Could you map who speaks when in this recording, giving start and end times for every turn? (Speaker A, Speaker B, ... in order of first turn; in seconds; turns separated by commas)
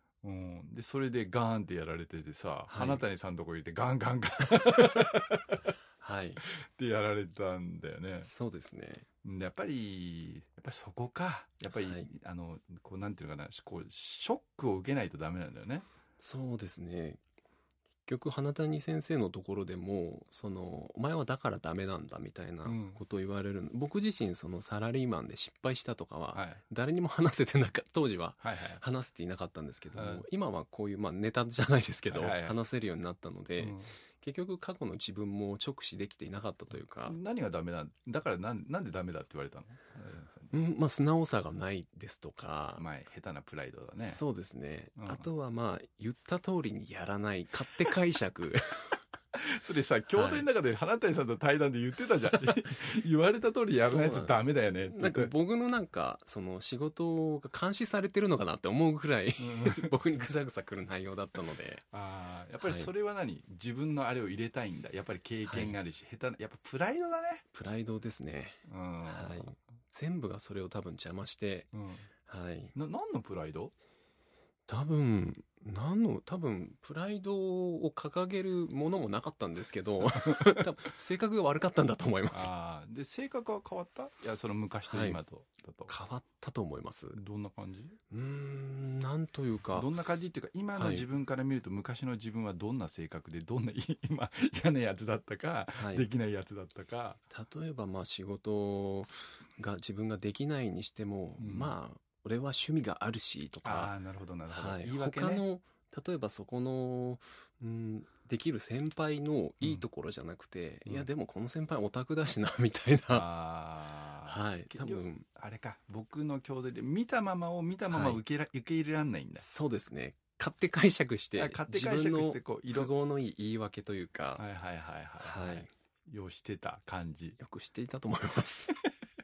Speaker A: 0.2-5.4, Speaker B: 2.7-3.0, Speaker B: 6.0-6.4, Speaker A: 6.5-8.3, Speaker B: 8.2-9.1, Speaker A: 9.2-15.9, Speaker B: 11.7-12.1, Speaker B: 16.2-17.2, Speaker B: 18.0-37.2, Speaker A: 22.6-23.0, Speaker A: 26.3-26.6, Speaker A: 28.4-28.8, Speaker A: 29.9-30.2, Speaker A: 32.1-32.6, Speaker A: 33.6-33.9, Speaker A: 37.0-40.5, Speaker B: 40.5-42.8, Speaker A: 42.8-44.2, Speaker B: 44.0-49.0, Speaker A: 45.0-45.3, Speaker A: 49.3-55.3, Speaker B: 50.1-50.5, Speaker B: 53.8-61.8, Speaker A: 59.4-59.9, Speaker A: 61.9-67.4, Speaker B: 62.6-62.9, Speaker B: 65.5-65.8, Speaker B: 67.5-71.7, Speaker A: 68.7-69.5, Speaker A: 71.7-72.1, Speaker B: 72.2-72.7, Speaker A: 72.7-73.7, Speaker B: 74.7-82.5, Speaker A: 82.3-85.9, Speaker B: 84.9-85.2, Speaker B: 85.9-87.2, Speaker A: 87.1-88.0, Speaker B: 88.1-89.9, Speaker A: 89.7-97.2, Speaker B: 90.8-91.0, Speaker B: 95.7-96.1, Speaker B: 97.3-103.9, Speaker A: 101.4-101.7, Speaker A: 103.6-105.4, Speaker B: 104.5-113.3, Speaker A: 113.1-119.4, Speaker B: 114.2-115.3, Speaker B: 117.9-118.2, Speaker B: 119.4-124.4, Speaker A: 121.4-122.9, Speaker A: 124.4-127.4, Speaker B: 125.2-125.7, Speaker B: 127.4-128.7